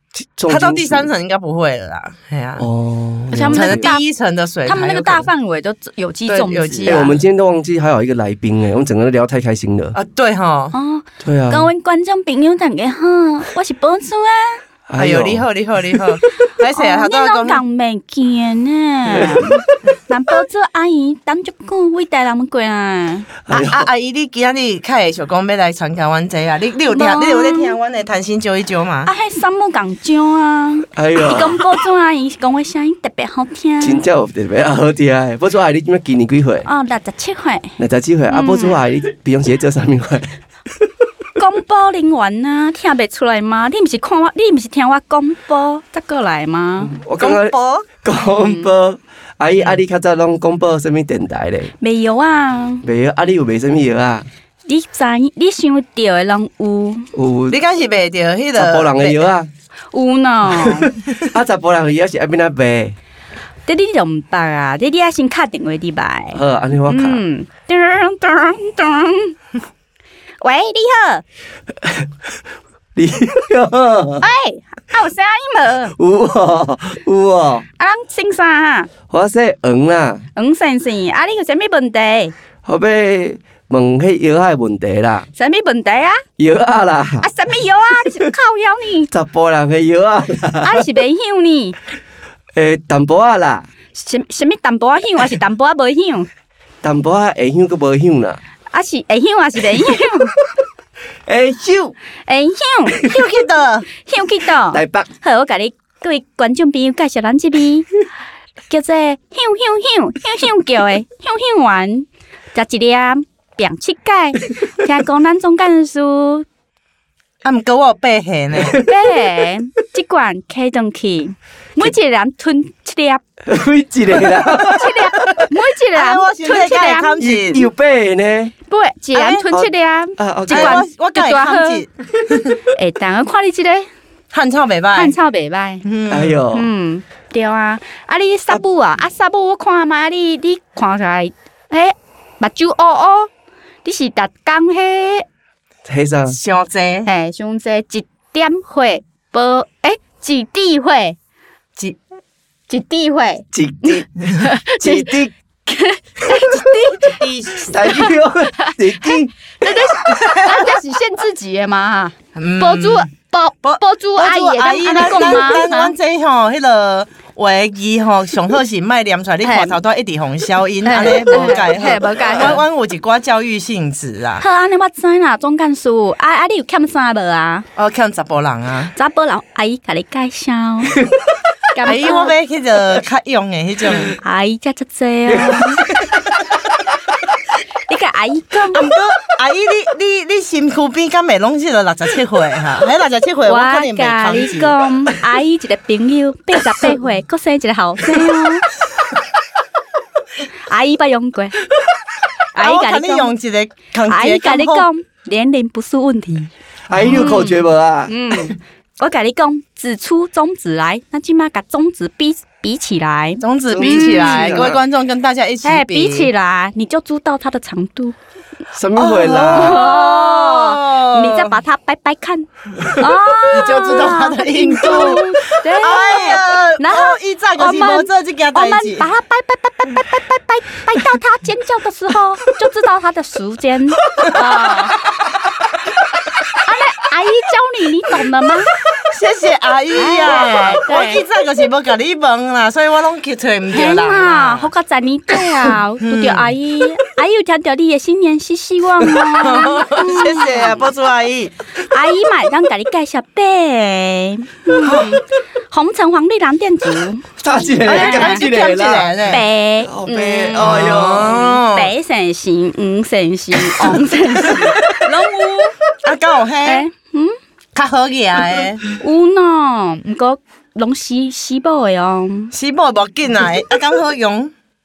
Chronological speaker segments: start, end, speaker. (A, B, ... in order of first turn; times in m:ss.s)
0:00.2-0:01.1 A
0:00.5-0:02.7 B
0:02.6-0:03.9 A
0:03.3-0:04.0 C
0:03.5-0:05.3 B
0:04.7-0:07.1 C
0:06.3-0:07.2 B
0:06.8-0:10.0 A
0:09.9-0:10.8 B
0:10.7-0:14.6 C
0:11.2-0:11.7 A
0:14.9-0:16.1 A
0:15.0-0:17.6 B
0:16.7-0:23.3 C
0:19.2-0:19.4 A
0:23.5-0:23.9 A
0:23.5-0:29.1 B
0:26.9-0:27.8 C
0:29.1-0:34.0 C
0:31.0-0:31.6 A
0:33.8-0:36.7 A
0:36.6-0:37.8 C
0:37.8-0:40.4 A
0:38.3-0:38.8 C
0:41.4-0:47.0 C
0:46.8-0:51.7 A
0:47.2-0:47.9 B
0:48.4-0:48.7 C
0:51.8-0:52.8 C
0:52.8-0:54.3 A
0:54.7-0:57.1 C
0:57.2-0:57.6 A
0:57.5-0:59.3 B
0:58.6-0:59.5 A
0:59.9-1:00.9 C
1:00.5-1:03.0 A
1:03.7-1:09.4 C
1:06.3-1:07.2 A
1:10.4-1:11.2 C
1:11.8-1:12.1 A
1:13.0-1:14.2 A
1:14.2-1:16.0 C
1:16.0-1:17.6 A
1:17.8-1:18.9 C
1:19.1-1:20.2 A
1:20.4-1:22.3 C
1:22.6-1:25.3 A
1:25.4-1:26.2 C
1:26.4-1:27.3 A
1:27.2-1:29.1 C
1:29.1-1:30.8 A
1:30.6-1:31.8 C
1:32.6-1:33.7 A
1:33.9-1:36.3 C
1:36.8-1:38.4 A
1:38.7-1:40.4 C
1:41.3-1:42.0 A
1:42.3-1:43.1 C
1:43.0-1:43.9 B
1:44.0-1:47.9 C
1:44.7-1:45.1 A
1:48.7-1:56.5 C
1:57.4-1:58.8 B
1:58.6-1:58.9 A
1:58.8-2:03.2 C
2:03.4-2:05.5 A
2:04.7-2:07.3 C
2:05.9-2:07.7 B
2:07.2-2:08.5 A
2:08.7-2:11.8 C
2:09.1-2:09.4 B
2:09.5-2:10.8 A
2:10.5-2:12.6 B
2:12.7-2:13.9 C
2:14.3-2:15.2 B
2:14.9-2:15.8 C
2:15.8-2:16.4 B
2:16.1-2:16.7 A
2:16.5-2:23.3 C
2:23.8-2:25.3 C
2:25.8-2:26.4 A
2:26.3-2:27.1 B
2:27.0-2:31.2 C
2:32.7-2:45.9 C
2:33.5-2:35.3 A
2:37.0-2:37.7 B
2:37.6-2:39.3 A
2:40.1-2:40.7 B
2:42.4-2:43.1 B
2:43.6-2:54.4 B
2:49.4-2:49.8 C
2:50.8-2:52.6 C
2:54.4-2:57.7 C
2:57.8-2:58.9 B
2:58.9-3:01.0 C
3:01.7-3:02.3 C
3:01.8-3:04.1 B
3:04.1-3:05.8 C
3:05.3-3:05.7 A
3:07.9-3:08.9 C
3:08.7-3:14.8 B
3:13.5-3:18.7 C
3:20.7-3:21.6 C
3:22.5-3:23.3 C
3:22.6-3:24.9 B
3:24.1-3:26.5 C
3:26.9-3:28.2 A
3:26.9-3:27.3 B
3:27.0-3:34.7 C
3:33.4-3:36.3 B
3:33.7-3:34.8 A
3:35.6-3:38.2 C
3:38.7-3:39.9 A
3:39.0-3:41.6 B
3:39.5-3:55.0 C
3:42.8-3:49.1 B
3:54.2-3:54.8 B
3:56.5-3:58.7 C
3:59.0-4:04.7 B
4:00.0-4:01.2 C
4:03.7-4:10.9 C
4:06.0-4:06.5 B
4:09.3-4:11.6 B
4:11.8-4:18.4 C
4:14.8-4:15.2 B
4:17.4-4:19.3 A
4:17.8-4:19.4 B
4:19.3-4:25.8 C
4:19.8-4:21.5 A
4:20.6-4:21.9 B
4:23.8-4:25.1 B
4:26.0-4:26.9 B
4:26.6-4:27.4 C
4:27.8-4:28.8 B
4:28.9-4:32.5 C
4:32.5-4:34.5 B